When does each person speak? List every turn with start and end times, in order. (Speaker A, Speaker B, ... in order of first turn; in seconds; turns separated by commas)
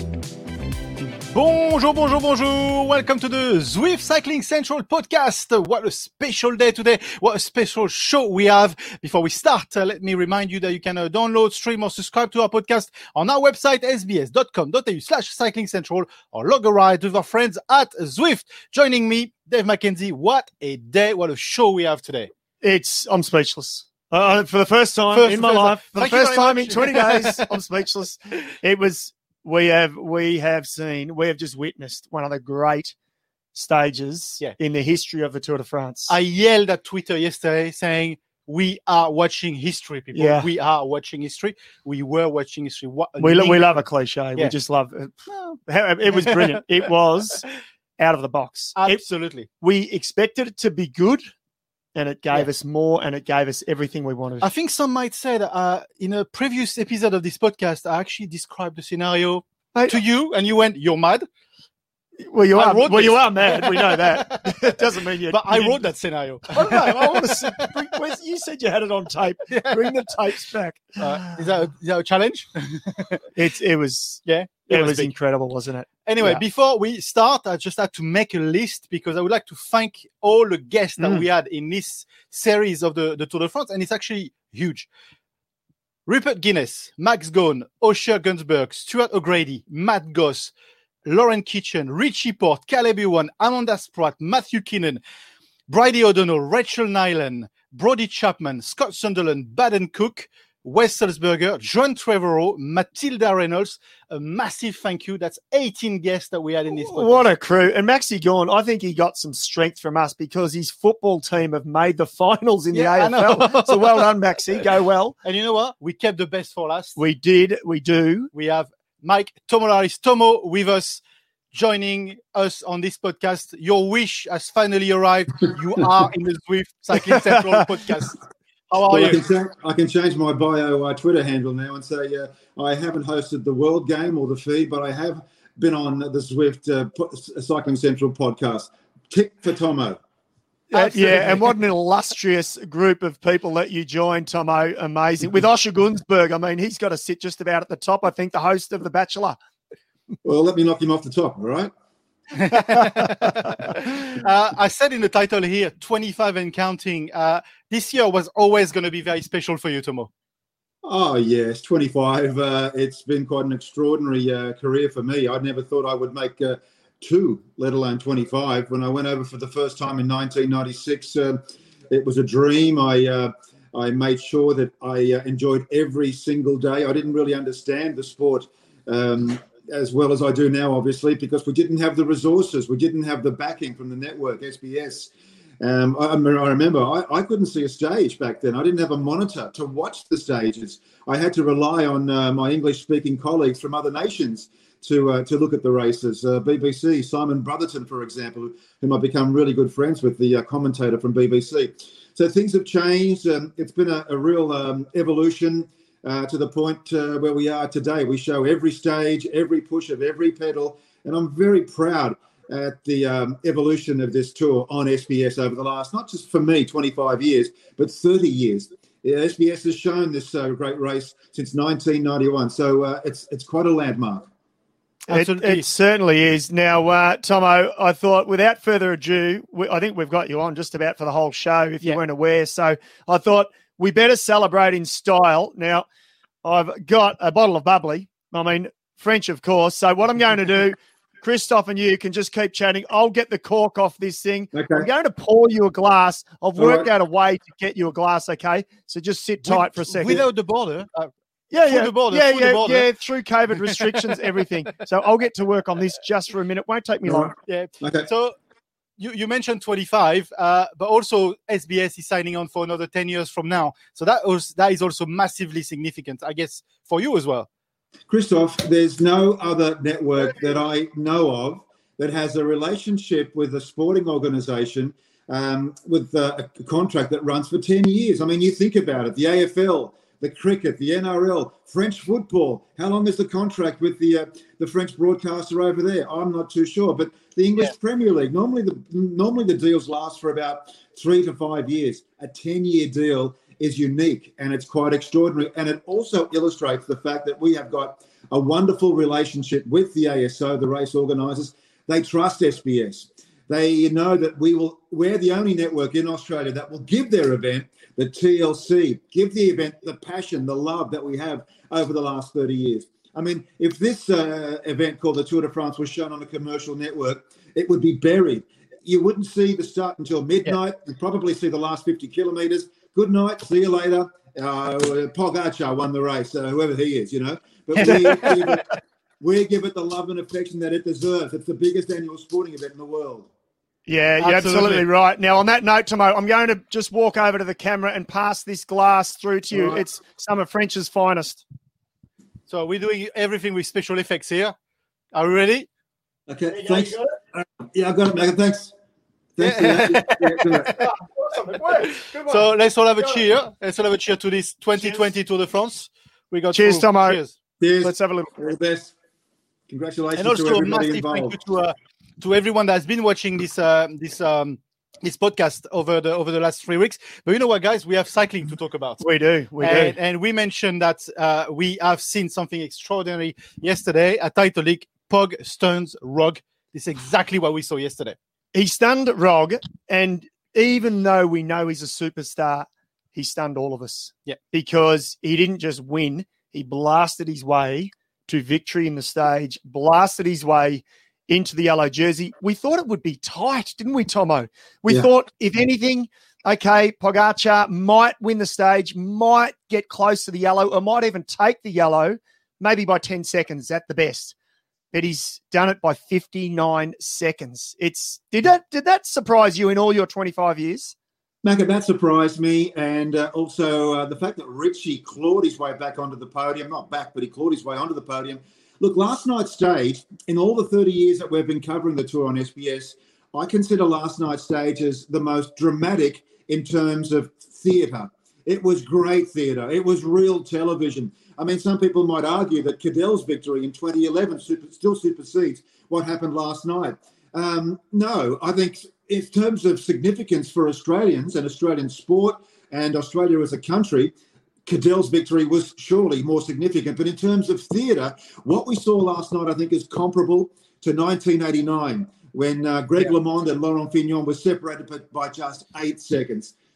Speaker A: 1.3-22.3, Speaker B: 22.6-32.9, Speaker A: 25.1-27.5, Speaker B: 33.5-36.1, Speaker A: 36.1-43.8, Speaker B: 40.1-40.5, Speaker B: 43.2-47.5, Speaker A: 45.3-46.6, Speaker B: 48.0-49.0, Speaker A: 48.8-49.5, Speaker B: 49.6-51.3, Speaker B: 51.9-54.5, Speaker A: 54.4-61.3, Speaker B: 59.7-60.0, Speaker B: 62.2-65.8, Speaker A: 62.5-67.8, Speaker B: 66.5-71.3, Speaker A: 69.5-69.9, Speaker A: 71.0-73.2, Speaker B: 73.3-76.4, Speaker A: 74.2-75.1, Speaker A: 76.0-84.9, Speaker B: 81.0-81.2, Speaker A: 86.0-90.5, Speaker A: 91.0-95.0, Speaker A: 95.7-107.3, Speaker B: 106.7-115.2, Speaker A: 112.7-114.1, Speaker A: 115.2-117.0, Speaker B: 117.0-118.3, Speaker A: 118.3-121.0, Speaker A: 121.5-129.2, Speaker B: 126.9-127.5, Speaker C: 128.9-140.0, Speaker B: 140.7-149.4, Speaker A: 140.7-141.5, Speaker C: 150.2-151.7, Speaker A: 152.3-160.1, Speaker C: 160.8-224.3, Speaker A: 225.1-225.7, Speaker B: 225.1-235.8, Speaker B: 236.4-250.2, Speaker C: 244.5-244.9, Speaker C: 246.6-246.9, Speaker A: 249.4-252.9, Speaker B: 251.5-257.3, Speaker C: 257.1-258.1, Speaker A: 257.4-258.4, Speaker A: 259.0-267.5, Speaker C: 268.1-328.6, Speaker A: 327.8-328.3, Speaker B: 327.9-328.5, Speaker C: 329.2-333.3, Speaker B: 333.9-341.4, Speaker A: 334.2-334.9, Speaker A: 342.5-344.5, Speaker A: 345.1-345.7, Speaker C: 346.3-348.7, Speaker C: 349.4-350.9, Speaker A: 349.4-350.8, Speaker A: 351.8-357.3, Speaker B: 356.5-357.2, Speaker C: 357.6-358.9, Speaker B: 357.8-358.3, Speaker C: 359.7-361.4, Speaker A: 360.1-369.0, Speaker B: 369.0-370.0, Speaker A: 369.6-378.2, Speaker B: 378.5-404.3, Speaker B: 404.9-410.9, Speaker C: 411.4-444.1, Speaker C: 444.6-456.5